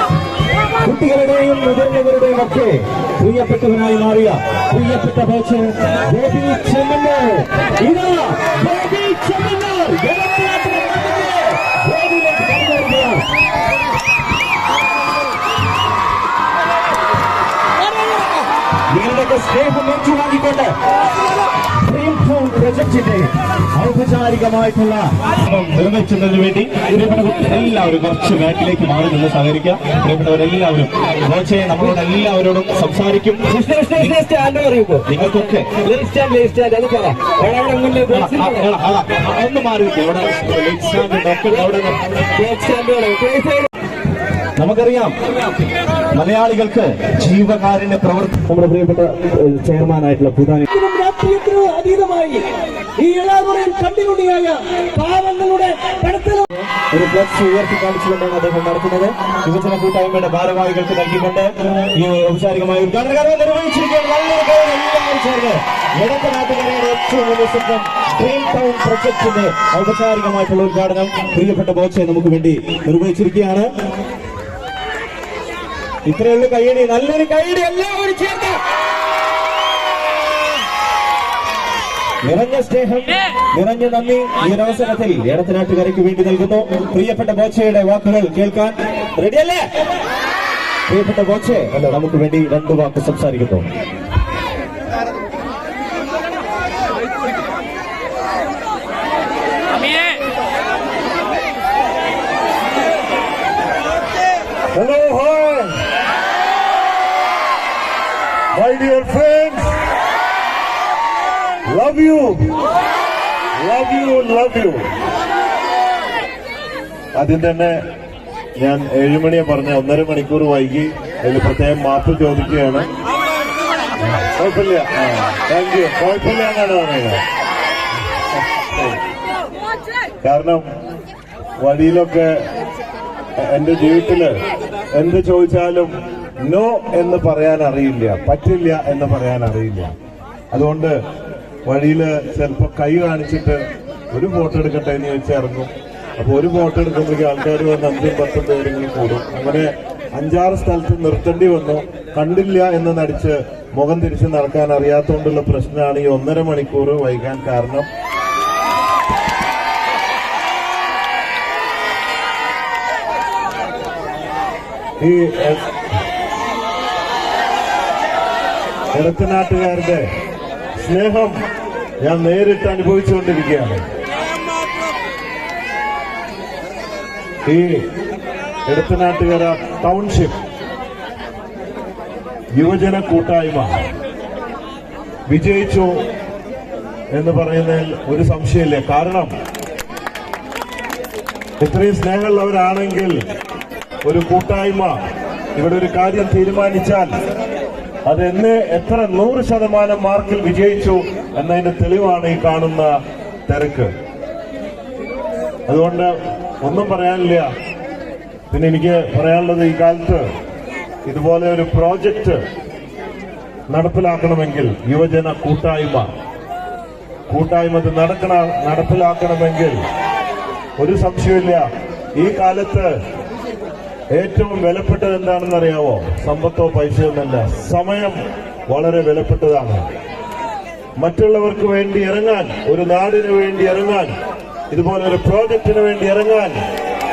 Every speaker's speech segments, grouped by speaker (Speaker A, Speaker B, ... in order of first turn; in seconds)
Speaker A: 0.8-13.2, 18.9-20.7, 21.8-34.2, 35.1-35.8, 38.1-42.3, 44.6-45.1, 46.1-50.7, 56.9-73.7, 76.0-78.6, 82.2-89.6, 90.9-93.7
Speaker B: 33.5-35.2, 35.8-38.7, 42.3-43.7, 50.7-56.7
Speaker C: 104.7-105.7, 108.5-109.7, 111.7-112.3, 113.6-114.8, 117.2-117.8, 118.6-122.9, 124.2-127.2, 128.7-129.0, 130.2-130.6, 131.6-132.3, 133.4-134.3, 134.9-139.9, 140.5-141.0, 141.7-157.9, 165.0-165.7, 168.9-170.1, 170.8-171.3, 172.0-173.8, 177.5-177.8, 178.7-180.4, 182.6-183.7, 185.3-185.9, 187.1-189.3, 191.6-193.2, 194.0-194.9, 195.6-197.1, 198.1-202.9, 203.5-203.9, 205.7-207.5, 208.5-210.2, 211.1-212.4, 213.7-216.1, 217.3-219.8, 220.8-221.6, 222.2-222.9, 224.1-228.2, 228.7-229.8, 231.0-234.1, 234.7-236.6